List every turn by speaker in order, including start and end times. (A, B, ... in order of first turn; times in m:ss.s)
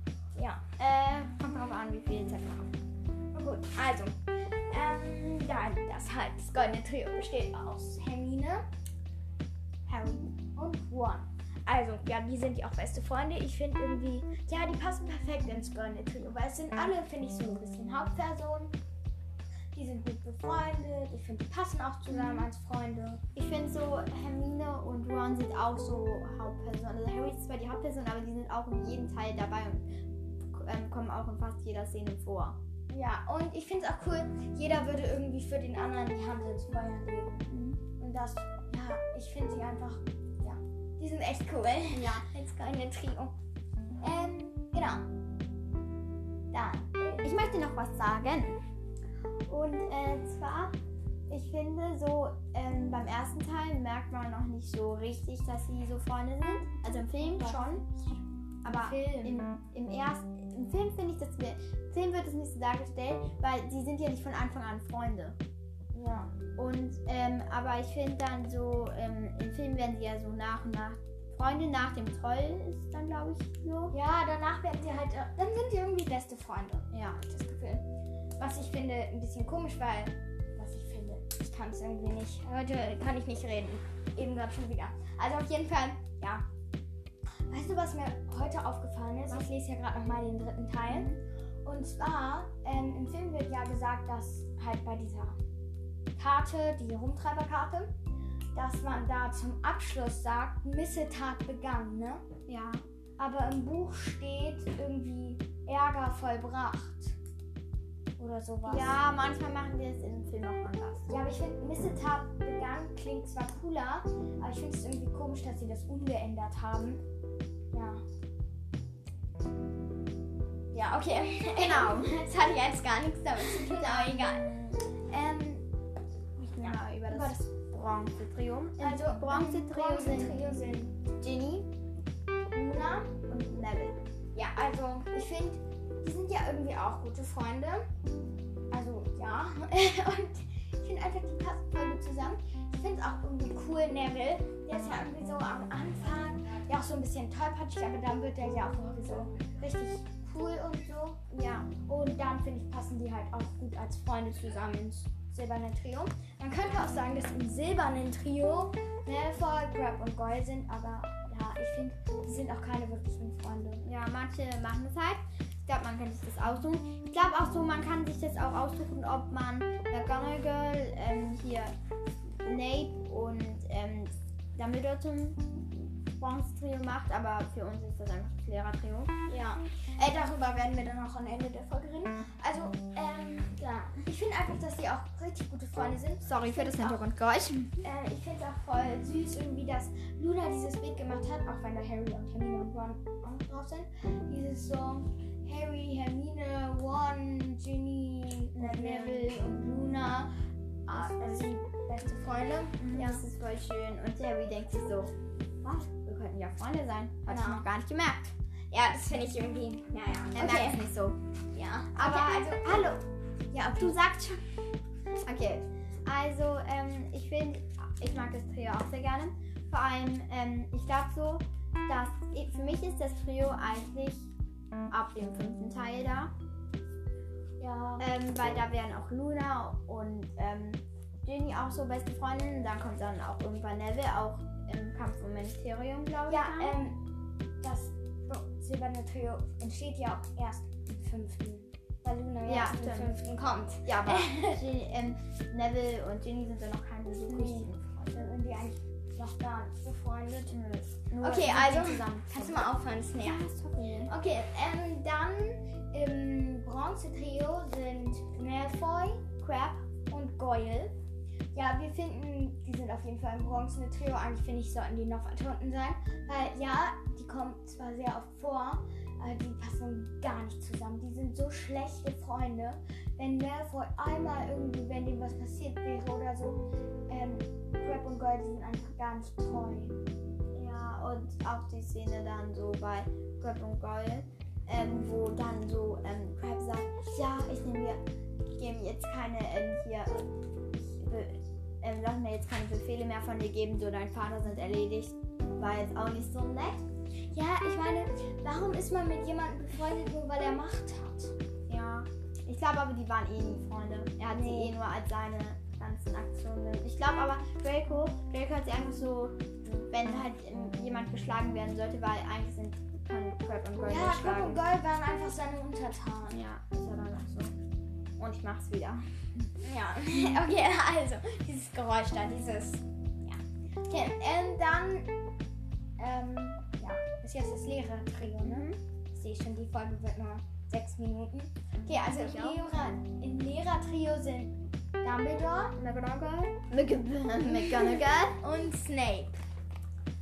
0:00.4-0:00.6 A
0:00.8-0:02.7 B
0:03.3-0:08.6 A
0:09.9-0:10.3 B
0:10.6-0:18.7 A
0:19.7-0:23.2 A
0:22.1-0:22.5 B
0:23.3-0:32.6 B
0:32.9-0:43.3 A
0:37.5-0:37.8 B
0:41.9-0:42.3 B
0:44.0-0:45.1 A
0:46.5-0:47.4 A
0:47.2-0:48.6 B
0:49.5-0:50.7 B
0:51.3-0:57.8 B
0:57.4-0:58.2 A
0:58.6-1:05.4 B
0:58.7-0:59.4 A
1:05.9-1:06.3 A
1:06.6-1:14.0 B
1:13.9-1:17.9 A
1:16.9-1:17.2 B
1:18.4-1:26.4 A
1:27.5-1:35.4 A
1:30.9-1:31.2 B
1:36.2-1:37.9 A
1:38.5-1:42.2 A
1:42.5-1:42.8 B
1:43.2-1:47.2 A
1:48.2-1:49.0 A
1:48.6-1:51.1 B
1:51.1-1:57.0 A
1:57.7-1:58.0 A
2:00.7-2:04.4 A
2:01.5-2:02.2 B
2:03.6-2:05.3 B
2:05.1-2:05.6 A
2:06.4-2:10.4 B
2:06.6-2:07.4 A
2:08.8-2:10.9 A
2:11.2-2:11.7 B
2:12.5-2:13.2 A
2:13.3-2:14.0 B
2:14.3-2:17.8 A
2:18.7-2:43.8 A
2:31.3-2:31.7 B
2:43.8-2:51.7 B
2:52.4-2:59.1 B
2:59.3-3:07.0 A
3:06.2-3:07.8 B
3:07.8-3:20.3 A
3:18.5-3:19.4 B
3:20.9-3:23.2 A
3:20.9-3:21.5 B
3:22.8-3:28.3 B
3:27.3-3:27.6 A
3:28.7-3:30.8 A
3:30.3-3:31.2 B
3:31.5-3:33.0 A
3:31.9-3:33.0 B
3:33.5-3:34.0 A
3:33.6-3:34.4 B
3:35.2-3:44.3 B
3:44.9-3:46.3 B
3:47.6-3:48.0 A
3:48.0-3:56.7 B
3:56.3-3:57.0 A
3:57.6-4:04.6 A
4:02.4-4:03.2 B
4:03.8-4:08.3 B
4:07.3-4:10.5 A
4:10.5-4:14.1 B
4:11.2-4:13.4 A
4:14.1-4:19.3 A
4:19.4-4:19.8 B
4:20.1-4:20.9 A
4:21.5-4:40.0 A
4:40.5-4:56.8 B
4:57.3-5:01.3 A
5:01.7-5:14.6 B
5:04.2-5:04.7 A
5:13.8-5:16.4 A
5:16.3-5:17.5 B
5:18.2-5:19.5 B
5:19.6-5:22.8 A
5:23.9-5:25.1 A
5:26.0-5:35.8 A
5:28.4-5:28.8 B
5:32.0-5:32.6 B
5:35.8-5:38.4 B
5:38.4-5:39.4 A